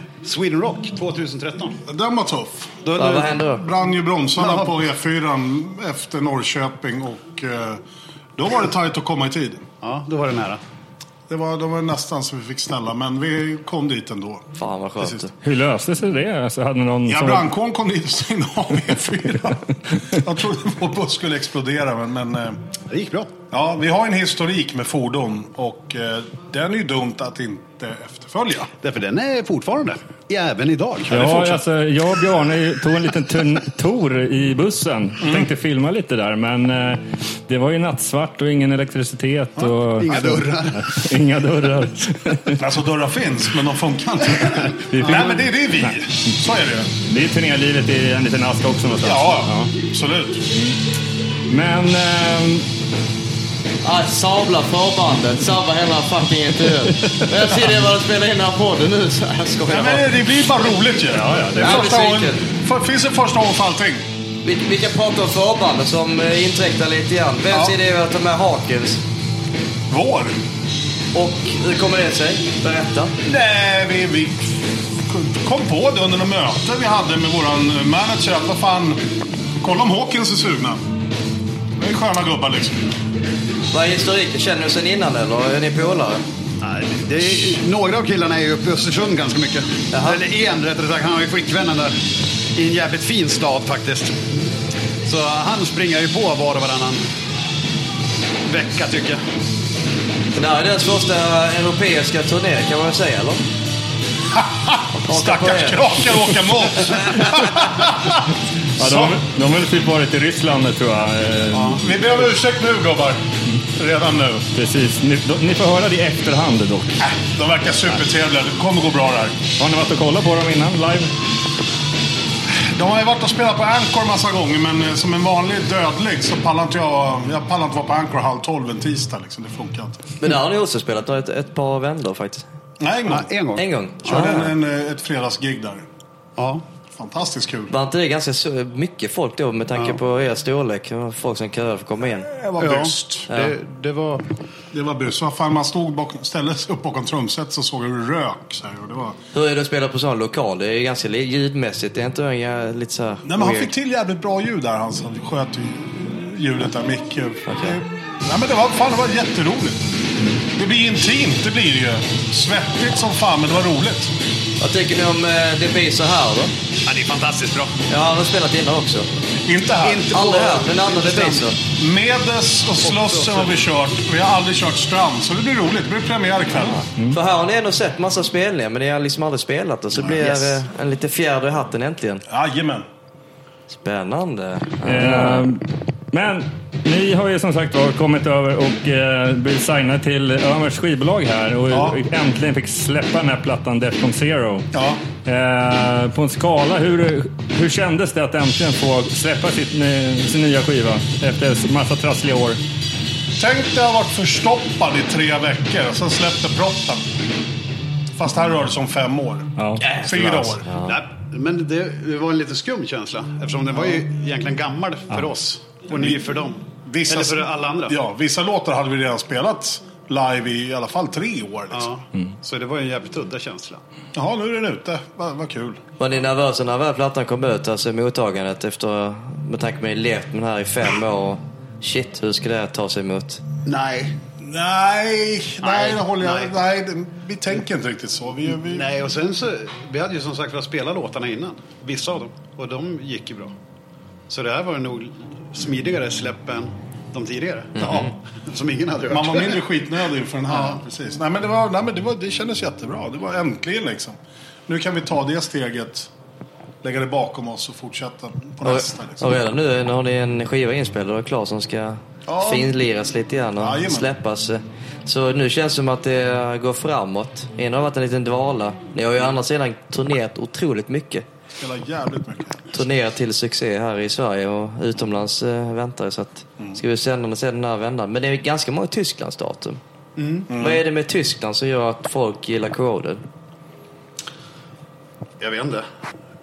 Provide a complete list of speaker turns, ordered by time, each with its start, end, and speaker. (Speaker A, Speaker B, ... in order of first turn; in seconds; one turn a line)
Speaker A: 0.2-1.8
Speaker B: 1.9-2.9
Speaker A: 2.9-3.3
Speaker C: 2.9-3.6
Speaker B: 3.6-7.8
Speaker A: 4.4-4.7
Speaker B: 8.4-9.7
Speaker A: 9.8-10.6
Speaker B: 11.3-14.5
Speaker C: 14.6-15.3
Speaker B: 15.0-15.2
Speaker D: 15.4-17.5
Speaker B: 17.1-22.6
Speaker A: 22.9-23.3
Speaker B: 23.5-28.7
Speaker A: 28.8-31.6
Speaker D: 31.1-42.6
Speaker A: 40.0-40.9
Speaker B: 42.6-46.9
Speaker D: 44.9-45.3
Speaker D: 47.1-49.7
Speaker B: 48.9-50.5
Speaker D: 51.5-52.6
Speaker C: 53.8-60.1
Speaker D: 57.1-57.6
Speaker B: 59.7-64.0
Speaker D: 61.1-61.9
Speaker C: 61.6-62.5
Speaker C: 64.4-69.0
Speaker B: 67.5-67.8
Speaker B: 69.9-70.3
Speaker C: 71.1-73.2
Speaker B: 73.2-74.5
Speaker B: 75.1-79.0
Speaker B: 79.6-80.8
Speaker B: 81.8-82.9
Speaker C: 83.7-86.2
Speaker A: 86.6-92.0
Speaker C: 89.9-90.2
Speaker A: 92.5-94.4
Speaker A: 95.0-97.0
Speaker A: 98.5-99.2
Speaker C: 100.3-103.4
Speaker B: 104.3-109.2
Speaker C: 105.0-105.9
Speaker D: 108.8-111.8
Speaker A: 111.5-111.8
Speaker B: 111.7-113.2
Speaker B: 113.7-114.5
Speaker D: 114.5-116.9
Speaker B: 117.0-119.4
Speaker D: 119.6-121.1
Speaker B: 122.6-130.1
Speaker C: 130.2-132.4
Speaker B: 132.8-133.3
Speaker A: 133.1-134.4
Speaker C: 133.6-134.5
Speaker B: 134.1-135.8
Speaker A: 136.4-136.7
Speaker B: 136.9-137.7
Speaker C: 137.7-142.3
Speaker B: 142.2-143.3
Speaker A: 142.6-144.3
Speaker C: 143.3-143.5
Speaker B: 144.7-149.2
Speaker C: 149.3-153.7
Speaker B: 153.2-159.9
Speaker C: 157.5-157.8
Speaker B: 160.6-164.1
Speaker C: 164.6-166.5
Speaker A: 166.8-167.8
Speaker C: 167.9-169.1
Speaker B: 169.4-170.1
Speaker A: 169.8-171.5
Speaker C: 170.1-171.6
Speaker B: 171.8-176.8
Speaker A: 172.8-173.5
Speaker C: 176.7-182.2
Speaker A: 180.1-180.6
Speaker B: 182.3-182.9
Speaker C: 183.7-185.5
Speaker D: 184.9-194.7
Speaker B: 191.7-192.0
Speaker B: 194.7-195.0
Speaker D: 195.2-202.6
Speaker B: 203.4-207.0
Speaker B: 208.2-210.7
Speaker D: 209.6-209.8
Speaker A: 209.8-218.0
Speaker C: 210.6-211.0
Speaker B: 216.8-221.9
Speaker A: 221.7-223.8
Speaker B: 224.1-225.8
Speaker C: 226.0-233.4
Speaker A: 233.7-234.2
Speaker B: 234.4-238.9
Speaker A: 235.6-236.5
Speaker A: 238.7-243.5
Speaker A: 244.3-249.6
Speaker B: 249.1-256.1
Speaker A: 250.5-250.8
Speaker B: 256.8-259.3
Speaker C: 258.6-271.2
Speaker B: 262.3-262.8
Speaker B: 263.6-264.1
Speaker B: 271.6-272.7
Speaker C: 272.7-279.8
Speaker A: 280.2-280.5
Speaker B: 280.5-280.8
Speaker C: 280.5-283.2
Speaker A: 285.4-285.9